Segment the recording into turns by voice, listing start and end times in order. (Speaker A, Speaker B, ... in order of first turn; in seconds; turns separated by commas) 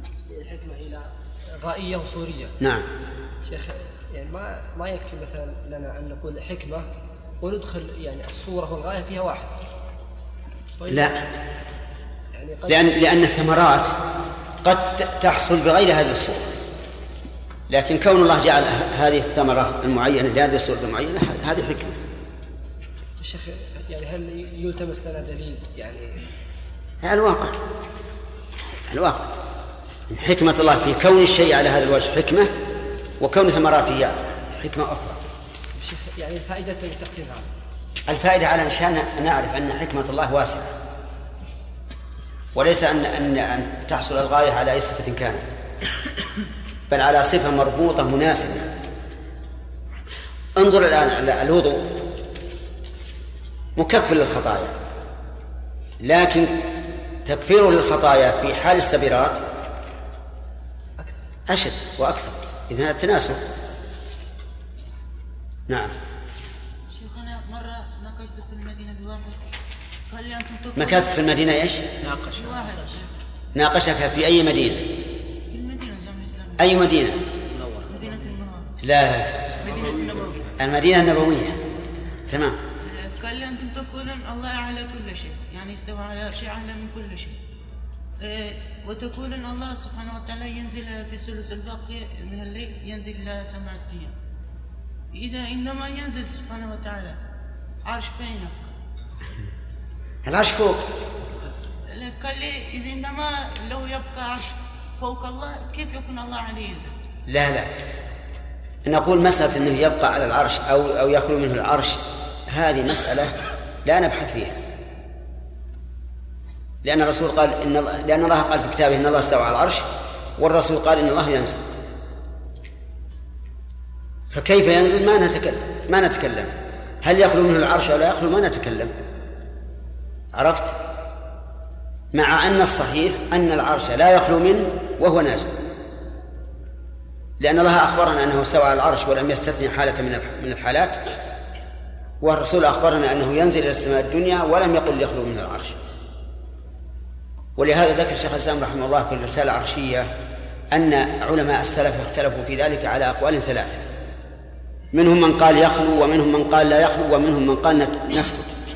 Speaker A: 0.2-2.5, Speaker B: 2.6-2.9, Speaker A: 3.4-6.9, Speaker A: 7.4-9.5, Speaker A: 10.8-11.1, Speaker B: 10.9-11.2, Speaker A: 12.3-12.9, Speaker B: 12.7-13.9, Speaker B: 14.6-16.5, Speaker B: 17.7-22.0, Speaker A: 23.2-26.2, Speaker B: 27.0-27.6, Speaker B: 28.9-29.3, Speaker B: 30.1-32.5, Speaker B: 33.2-35.2, Speaker A: 35.8-37.5, Speaker B: 38.1-40.7, Speaker B: 42.5-45.4, Speaker B: 46.9-48.6, Speaker B: 50.5-52.0, Speaker B: 53.8-54.7, Speaker B: 56.0-56.7, Speaker B: 57.2-59.4, Speaker B: 61.5-63.4, Speaker C: 66.9-69.4, Speaker C: 70.1-71.5, Speaker B: 70.8-71.9, Speaker C: 72.0-73.2, Speaker B: 73.5-74.9, Speaker C: 75.5-76.9, Speaker B: 76.6-77.2, Speaker C: 77.8-78.8, Speaker B: 78.8-79.5, Speaker C: 79.6-80.5, Speaker B: 80.6-81.6, Speaker B: 82.3-82.6, Speaker C: 82.8-87.4, Speaker C: 88.2-94.1, Speaker C: 95.1-97.2, Speaker C: 97.8-98.7, Speaker B: 100.2-100.8, Speaker C: 101.9-106.9, Speaker B: 107.3-107.7, Speaker B: 108.8-114.6, Speaker B: 116.8-119.9, Speaker B: 120.4-121.6, Speaker B: 124.3-128.9, Speaker B: 130.3-130.7, Speaker B: 132.1-135.5, Speaker B: 137.4-141.0, Speaker B: 142.2-145.8, Speaker B: 147.6-150.1, Speaker B: 150.7-153.9, Speaker B: 154.9-158.5